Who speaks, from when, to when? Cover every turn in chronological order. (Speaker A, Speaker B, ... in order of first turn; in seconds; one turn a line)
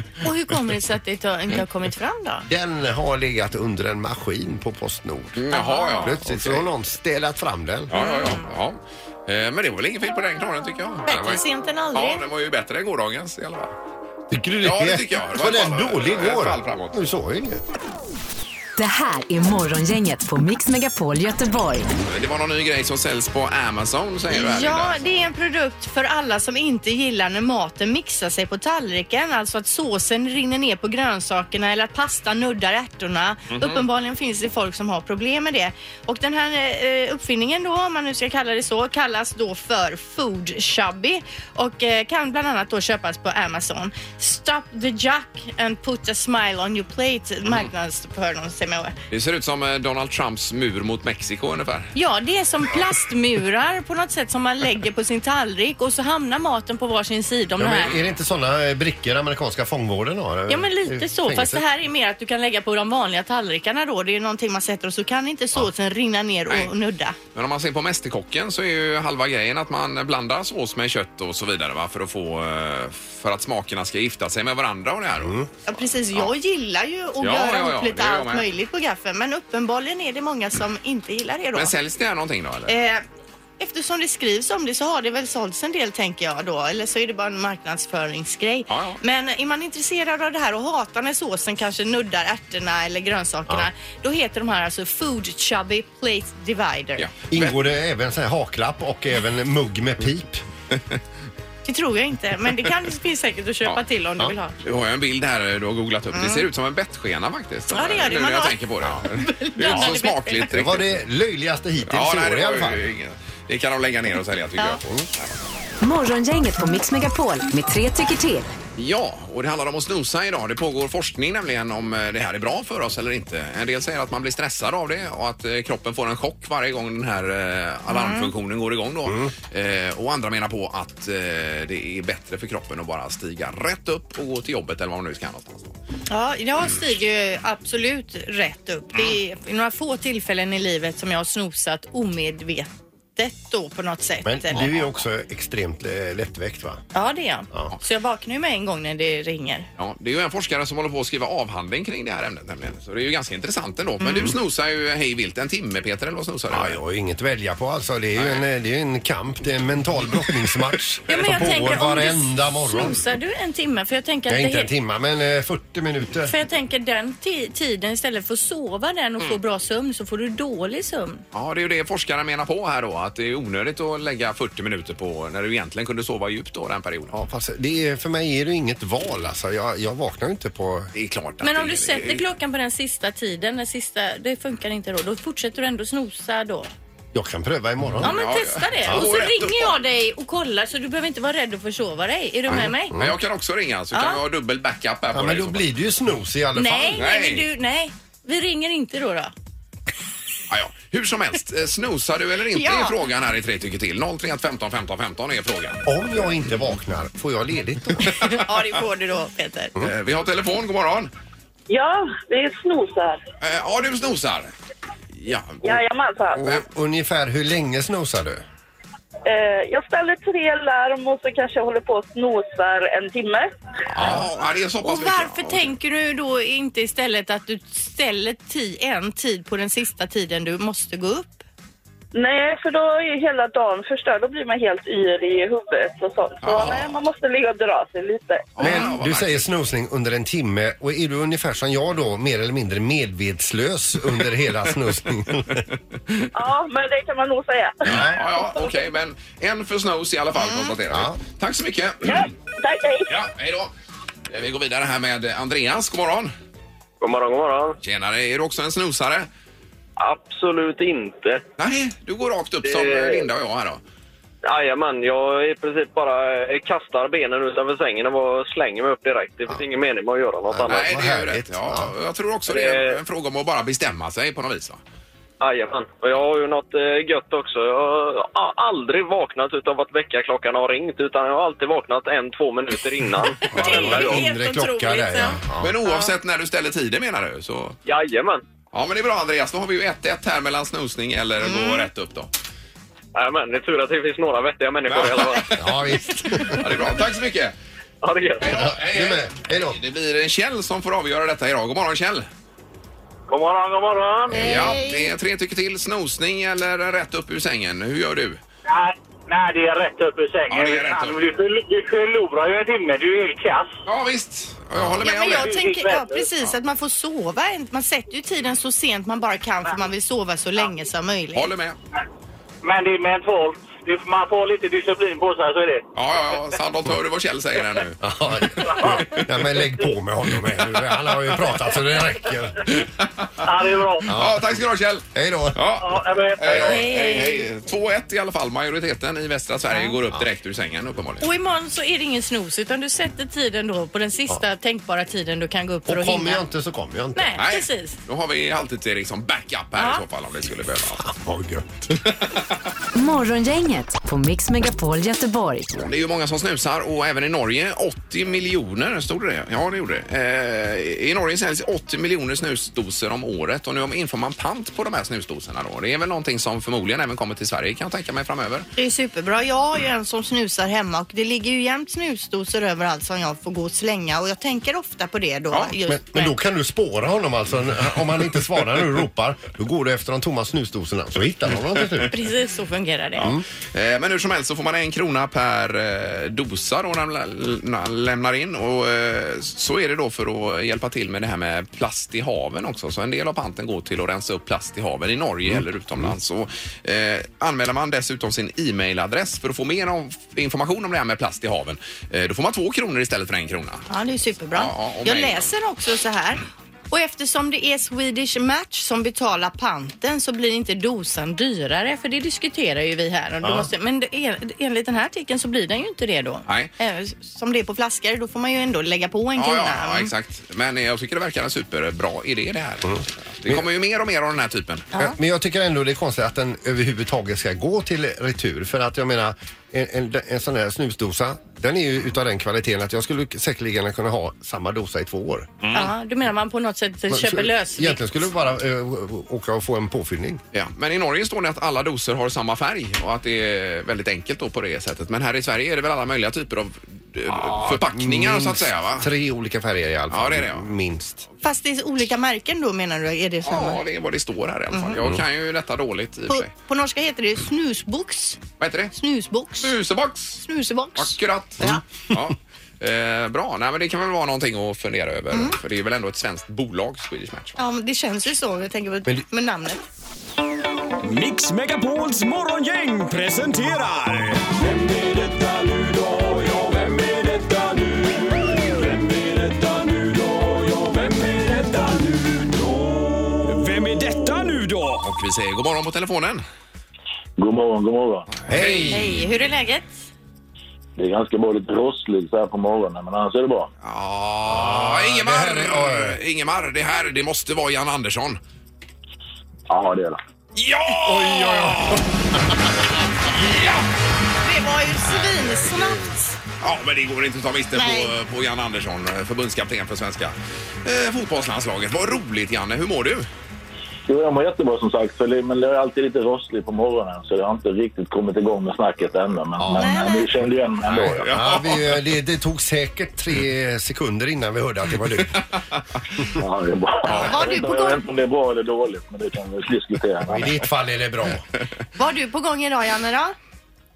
Speaker A: 0.2-2.5
Speaker B: 2.5-5.5
Speaker C: 5.4-6.7
Speaker A: 5.5-6.1
Speaker B: 6.0-8.0
Speaker C: 7.9-11.4
Speaker A: 7.9-8.4
Speaker A: 11.1-12.2
Speaker C: 11.9-13.7
Speaker B: 14.3-17.6
Speaker C: 14.6-17.0
Speaker D: 18.8-21.9
Speaker C: 22.0-25.0
Speaker A: 24.3-49.0
Speaker C: 33.5-33.8
Speaker C: 49.1-51.9
Speaker A: 52.0-57.9
Speaker B: 57.6-61.6
Speaker A: 60.5-67.2
Speaker C: 67.3-75.4
Speaker B: 75.2-75.5
Speaker A: 75.7-81.7
Speaker C: 77.2-78.5
Speaker C: 81.5-82.7
Speaker A: 82.7-83.0
Speaker A: 83.6-97.1
Speaker C: 88.7-89.0
Speaker C: 97.0-97.6
Speaker B: 97.3-100.4
Speaker A: 101.7-104.6
Speaker C: 104.6-111.0
Speaker A: 106.1-106.5
Speaker A: 107.7-110.5
Speaker B: 110.5-112.8
Speaker C: 111.8-115.3
Speaker D: 115.8-118.5
Speaker C: 118.8-135.8
Speaker A: 127.9-128.3
Speaker B: 129.1-129.3
Speaker A: 136.1-144.7
Speaker B: 144.2-146.8
Speaker A: 146.9-149.7
Speaker C: 149.8-156.8
Speaker A: 154.0-154.3
Speaker B: 156.5-163.0
Speaker C: 158.2-158.4
Speaker A: 161.1-164.7
Speaker B: 164.3-166.3
Speaker A: 166.3-171.2
Speaker C: 171.3-177.2
Speaker B: 177.1-180.9
Speaker C: 180.9-182.2
Speaker A: 181.4-186.7
Speaker B: 187.1-188.2
Speaker C: 188.0-189.8
Speaker A: 188.0-192.9
Speaker C: 192.5-195.7
Speaker A: 193.9-194.2
Speaker B: 195.1-197.0
Speaker A: 196.6-199.3
Speaker C: 196.9-197.5
Speaker C: 200.5-205.8
Speaker A: 202.5-203.0
Speaker B: 205.9-208.3
Speaker A: 208.1-209.7
Speaker C: 209.8-211.1
Speaker E: 211.7-213.2
Speaker C: 213.4-214.5
Speaker C: 215.2-215.8
Speaker E: 215.6-216.4
Speaker B: 216.4-218.4
Speaker E: 219.3-223.5
Speaker C: 223.9-225.7
Speaker A: 224.8-231.4
Speaker E: 232.1-238.5
Speaker C: 236.4-237.0
Speaker C: 238.6-239.5
Speaker B: 238.6-245.6
Speaker E: 246.3-248.8
Speaker B: 247.8-248.2
Speaker C: 247.8-252.3
Speaker A: 250.4-250.7
Speaker B: 250.9-251.2
Speaker E: 252.0-253.1
Speaker C: 253.1-253.7
Speaker C: 254.3-256.3
Speaker F: 257.0-257.8
Speaker C: 257.8-259.3
Speaker F: 260.0-261.5
Speaker C: 261.6-263.8
Speaker F: 262.6-263.3
Speaker F: 264.4-270.9
Speaker B: 270.5-271.9
Speaker C: 270.7-274.8
Speaker F: 272.5-273.0
Speaker F: 275.4-284.3
Speaker A: 283.4-286.1
Speaker B: 283.5-285.8
Speaker C: 285.6-287.8
Speaker F: 287.9-288.4
Speaker C: 288.7-292.3
Speaker A: 291.4-291.9
Speaker F: 293.1-295.5
Speaker C: 294.9-295.8
Speaker B: 295.5-296.8
Speaker C: 296.4-297.6
Speaker F: 298.0-298.6
Speaker C: 298.4-302.3
Speaker B: 298.4-299.8
Speaker G: 303.3-304.5
Speaker B: 304.3-304.8
Speaker C: 304.4-308.4
Speaker A: 304.4-305.1
Speaker G: 308.7-313.8
Speaker C: 310.5-311.2
Speaker C: 313.9-315.5
Speaker B: 314.8-315.0
Speaker A: 315.0-321.5
Speaker G: 315.2-316.3
Speaker C: 321.4-321.8
Speaker G: 322.6-325.9
Speaker C: 325.9-329.5
Speaker B: 328.0-332.7
Speaker G: 328.7-329.0
Speaker C: 332.6-333.5
Speaker G: 333.4-334.1
Speaker C: 334.0-341.3
Speaker B: 334.1-334.6
Speaker B: 335.1-335.6
Speaker G: 335.8-336.6
Speaker A: 336.5-337.4
Speaker A: 339.7-339.9
Speaker A: 341.2-346.4
Speaker B: 345.9-347.4
Speaker A: 347.2-348.0
Speaker C: 347.4-351.1
Speaker A: 349.8-350.0
Speaker B: 351.0-351.9
Speaker C: 352.0-352.6
Speaker D: 352.9-355.8
Speaker C: 355.8-368.7
Speaker A: 368.8-376.4
Speaker B: 375.9-382.1
Speaker A: 382.1-383.3
Speaker B: 383.2-383.4
Speaker C: 383.2-403.9
Speaker B: 395.5-396.1
Speaker A: 403.9-420.1
Speaker C: 404.5-405.5
Speaker B: 413.4-413.7
Speaker C: 419.4-424.9
Speaker B: 422.9-423.6
Speaker B: 425.0-435.5
Speaker C: 435.6-435.9
Speaker A: 435.7-438.1
Speaker B: 437.1-440.4
Speaker C: 440.5-449.1
Speaker B: 447.3-451.3
Speaker C: 450.1-450.7
Speaker A: 451.4-453.8
Speaker C: 453.4-456.5
Speaker A: 454.7-455.0
Speaker A: 456.3-458.4
Speaker C: 458.6-458.9
Speaker A: 458.9-459.7
Speaker C: 459.6-467.6
Speaker A: 460.4-461.8
Speaker A: 467.6-469.8
Speaker H: 471.0-485.1
Speaker C: 485.0-486.4
Speaker I: 487.4-488.3
Speaker C: 488.4-489.1
Speaker B: 488.5-489.2
Speaker A: 488.9-490.0
Speaker I: 491.0-493.7
Speaker C: 493.8-498.4
Speaker B: 494.5-496.2
Speaker I: 499.7-500.2
Speaker C: 500.6-502.1
Speaker B: 500.9-502.6
Speaker C: 503.3-503.9
Speaker A: 504.4-506.4
Speaker B: 505.2-506.1
Speaker C: 506.6-513.3
Speaker A: 507.8-508.1
Speaker I: 514.1-521.3
Speaker B: 519.6-520.0
Speaker A: 519.8-520.3
Speaker C: 520.9-522.0
Speaker B: 521.0-525.6
Speaker I: 526.4-530.6
Speaker A: 527.1-528.0
Speaker B: 530.3-531.5
Speaker A: 532.0-533.3